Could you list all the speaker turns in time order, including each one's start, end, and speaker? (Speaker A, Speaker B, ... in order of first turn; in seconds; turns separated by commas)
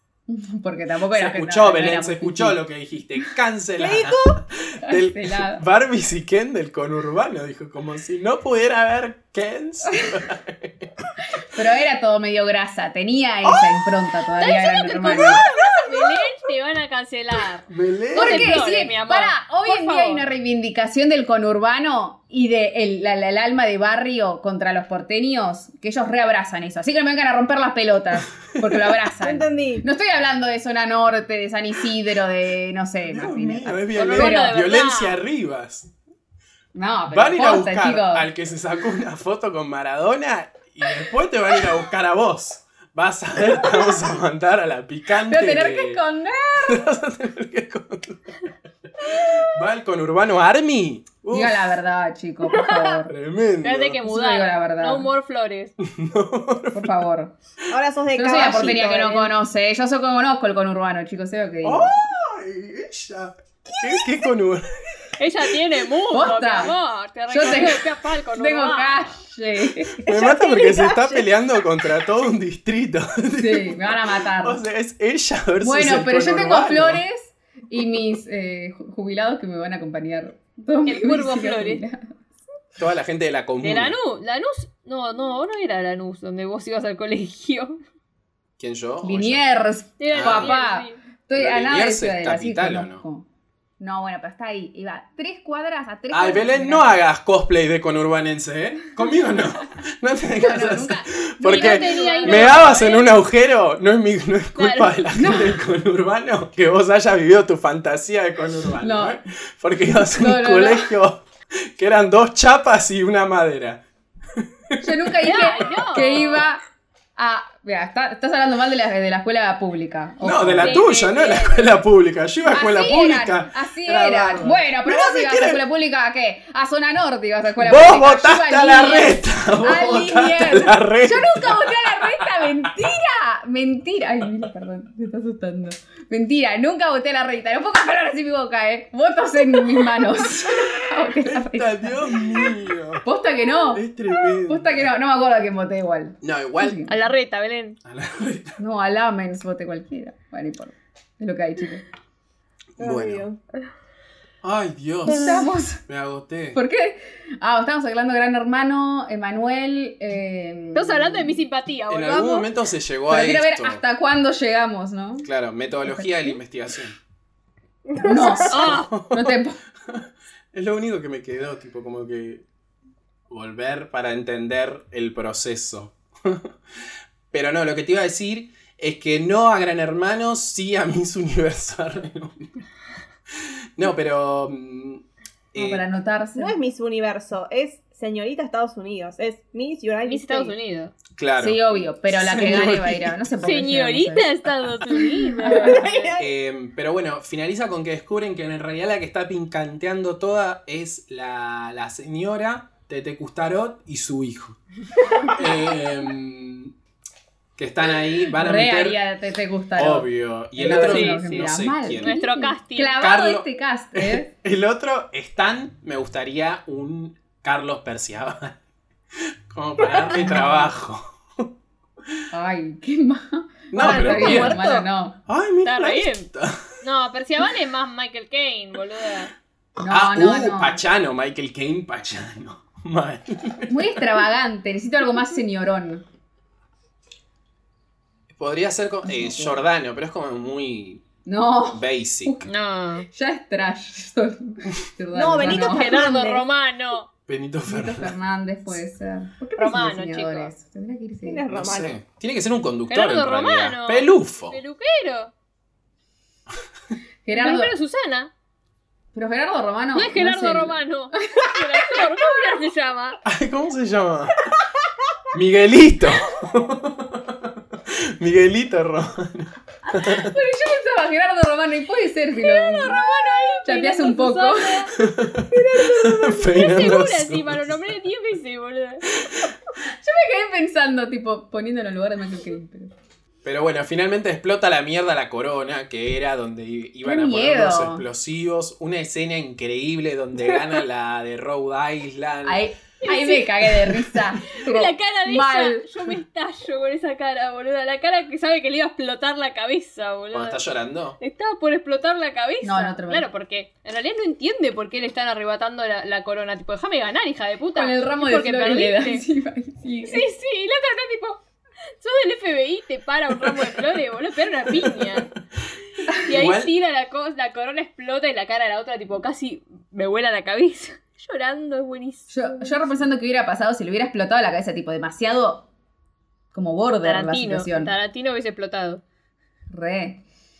Speaker A: 0.3-2.6, Speaker B: 1.1-10.9, Speaker C: 3.8-4.4, Speaker A: 4.8-5.6, Speaker A: 11.4-15.4, Speaker D: 14.3-20.2, Speaker C: 15.6-16.3, Speaker B: 17.7-18.6, Speaker A: 18.1-34.6, Speaker C: 29.2-29.9, Speaker B: 33.0-35.9, Speaker D: 33.9-35.2, Speaker A: 36.7-38.3, Speaker B: 37.1-46.0, Speaker A: 43.6-44.0, Speaker A: 45.3-46.9, Speaker B: 46.6-48.4, Speaker B: 49.0-51.7, Speaker A: 51.3-53.1, Speaker C: 52.5-52.9, Speaker B: 53.1-54.0, Speaker D: 53.6-55.7, Speaker A: 54.0-55.1, Speaker B: 55.8-57.0, Speaker A: 56.7-57.3, Speaker C: 57.7-59.3, Speaker A: 58.1-62.1, Speaker B: 61.6-64.7, Speaker D: 65.2-69.1, Speaker A: 66.1-66.8, Speaker A: 67.3-70.0, Speaker B: 70.0-77.0, Speaker C: 70.0-71.4, Speaker A: 73.4-74.6, Speaker A: 75.6-82.1, Speaker D: 80.8-81.8, Speaker B: 82.8-84.0, Speaker D: 83.6-87.8, Speaker B: 88.6-89.4, Speaker A: 89.0-93.3, Speaker D: 90.0-91.0, Speaker B: 90.1-90.5, Speaker B: 91.3-93.0, Speaker A: 93.8-97.0, Speaker B: 96.1-113.8, Speaker A: 100.3-102.9, Speaker D: 101.4-103.1, Speaker D: 104.5-105.0, Speaker A: 105.2-105.6, Speaker A: 108.8-109.2, Speaker A: 109.9-110.9, Speaker B: 114.4-114.9, Speaker A: 114.8-116.6, Speaker D: 115.2-116.5, Speaker A: 117.2-120.8, Speaker B: 120.2-125.6, Speaker D: 120.6-121.8, Speaker A: 122.5-146.9, Speaker B: 127.6-132.5, Speaker B: 141.1-143.1, Speaker B: 143.7-144.9, Speaker B: 146.2-146.8, Speaker D: 146.8-147.8, Speaker B: 147.8-148.6, Speaker A: 148.6-151.8, Speaker B: 152.8-153.3, Speaker C: 152.8-153.4, Speaker B: 154.4-156.6, Speaker A: 155.0-155.8, Speaker A: 156.5-161.4, Speaker D: 160.7-162.5, Speaker B: 161.9-163.8, Speaker A: 163.1-165.3, Speaker B: 165.2-166.9, Speaker A: 165.8-166.4, Speaker C: 167.9-168.6, Speaker A: 168.0-169.6, Speaker B: 168.4-169.3, Speaker D: 168.5-168.9, Speaker B: 169.9-172.4, Speaker B: 173.3-176.5, Speaker B: 177.3-182.5, Speaker B: 183.8-185.8, Speaker A: 185.5-186.6, Speaker C: 186.3-190.5, Speaker D: 190.1-190.9, Speaker B: 191.2-193.2, Speaker A: 191.4-194.3, Speaker D: 193.4-196.1, Speaker A: 195.4-195.8, Speaker C: 195.4-196.3, Speaker B: 196.2-204.6, Speaker B: 205.2-206.7, Speaker B: 207.6-209.0, Speaker A: 208.3-214.3, Speaker B: 209.8-212.1, Speaker D: 210.6-213.2, Speaker B: 213.0-218.6, Speaker B: 219.5-221.5, Speaker A: 220.1-220.8, Speaker A: 222.3-225.2, Speaker B: 223.7-224.6, Speaker C: 223.8-224.8, Speaker B: 225.3-226.8, Speaker D: 225.6-226.3, Speaker D: 226.8-229.3, Speaker A: 229.8-230.8, Speaker B: 229.9-234.0, Speaker A: 233.7-236.0, Speaker B: 238.3-241.0, Speaker A: 239.0-239.6, Speaker A: 241.2-242.5, Speaker B: 241.7-242.4, Speaker D: 242.4-243.1, Speaker A: 243.1-246.0, Speaker C: 245.1-246.4, Speaker D: 245.3-247.1, Speaker B: 247.3-248.1, Speaker A: 247.7-251.4, Speaker D: 249.6-250.5, Speaker C: 251.2-251.9, Speaker B: 251.5-254.6, Speaker D: 252.9-255.3, Speaker A: 257.2-257.7, Speaker D: 257.3-258.3, Speaker A: 259.1-262.6, Speaker D: 259.9-263.2, Speaker B: 263.2-264.4, Speaker B: 265.3-270.3, Speaker A: 269.9-274.9, Speaker D: 272.4-274.9, Speaker B: 274.9-277.9, Speaker C: 275.5-276.6, Speaker D: 276.5-279.1, Speaker B: 279.2-279.5, Speaker A: 279.8-282.9, Speaker B: 283.4-292.6, Speaker A: 287.0-288.0, Speaker A: 292.4-295.9, Speaker D: 293.0-300.6, Speaker B: 300.3-301.2, Speaker D: 301.2-309.2, Speaker A: 302.6-303.3, Speaker A: 307.8-310.3, Speaker D: 310.1-311.4, Speaker D: 312.0-315.3, Speaker D: 316.1-322.7, Speaker B: 316.2-316.7, Speaker A: 322.3-325.7, Speaker A: 326.5-327.9, Speaker D: 327.0-329.0, Speaker A: 329.7-330.2